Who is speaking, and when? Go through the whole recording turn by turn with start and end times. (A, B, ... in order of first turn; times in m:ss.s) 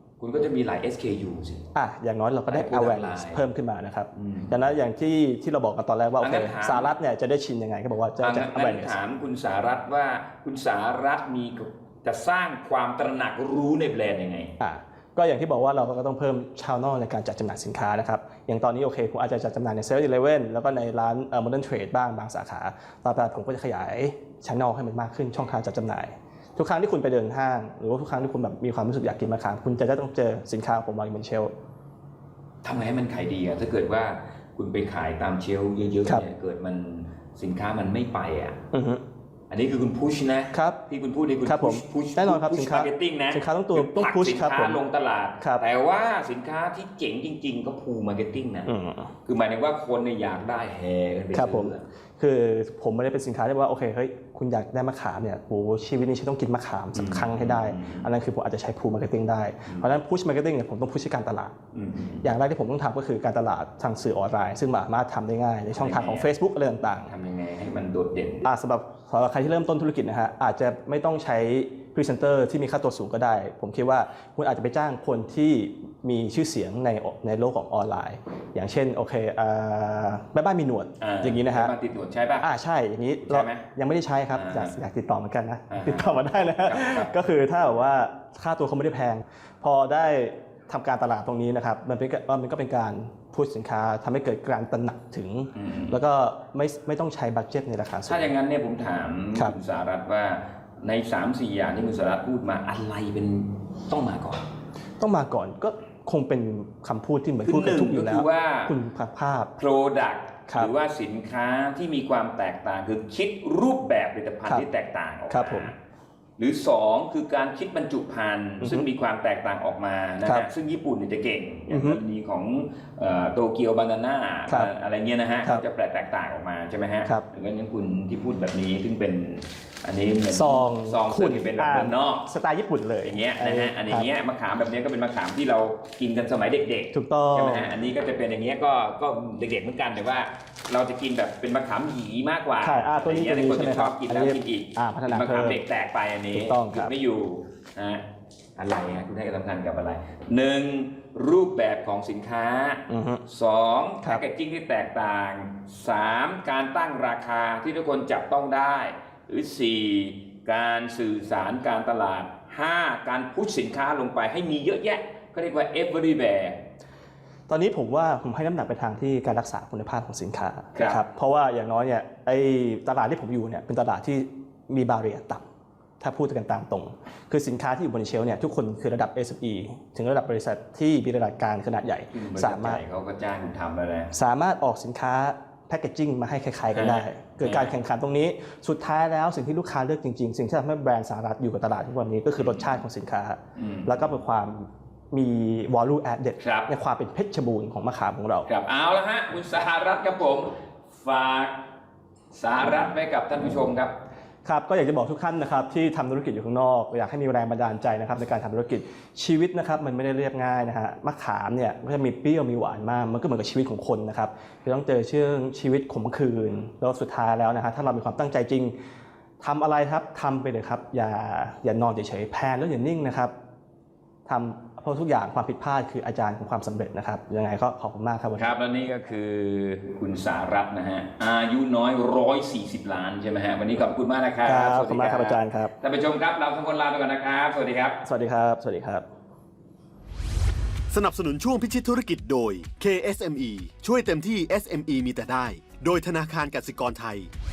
0:00.2-0:01.6 A
0:01.7-0:09.0 B
0:02.5-0:03.4 A
0:04.1-0:04.6 A
0:06.2-0:06.9 A
0:08.2-0:14.5 A
0:14.6-0:31.5 B
0:32.6-0:38.6 A
0:38.7-0:39.0 B
0:39.5-0:48.7 A
0:40.5-0:40.8 B
0:41.4-0:44.8 B
0:45.4-0:45.6 B
0:48.6-0:49.1 B
0:49.2-0:51.8 A
0:51.3-1:01.5 B
0:56.9-0:58.1 A
1:01.7-1:02.3 A
1:02.2-1:07.1 B
1:05.7-1:06.3 A
1:07.0-1:08.5 A
1:08.4-1:21.7 B
1:21.0-1:22.4 A
1:22.4-1:38.3 B
1:23.2-1:23.7 A
1:24.3-1:24.7 A
1:25.7-1:27.1 A
1:35.5-1:36.0 A
1:38.1-1:44.4 A
1:45.0-1:49.5 B
1:47.4-1:48.7 A
1:49.6-1:55.8 A
1:55.3-1:55.7 B
1:56.4-2:12.3 A
1:58.6-1:58.9 B
2:00.2-2:00.5 B
2:01.7-2:02.0 B
2:10.3-2:14.1 B
2:13.0-2:28.0 A
2:16.9-2:17.7 B
2:22.6-2:25.6 B
2:26.3-2:27.0 B
2:28.6-2:46.6 A
2:32.9-2:33.2 B
2:47.5-2:55.4 B
2:50.7-2:51.0 A
2:56.0-3:02.8 B
3:02.1-3:04.1 A
3:04.1-3:18.5 B
3:06.7-3:07.7 A
3:12.4-3:12.8 A
3:13.6-3:14.1 A
3:16.4-3:16.7 A
3:18.4-3:21.6 A
3:22.3-3:23.9 A
3:24.4-3:38.7 B
3:39.4-3:43.3 B
3:44.2-3:48.5 B
3:48.4-3:58.0 A
3:54.4-3:55.7 B
3:58.0-3:59.0 B
4:00.9-4:07.3 C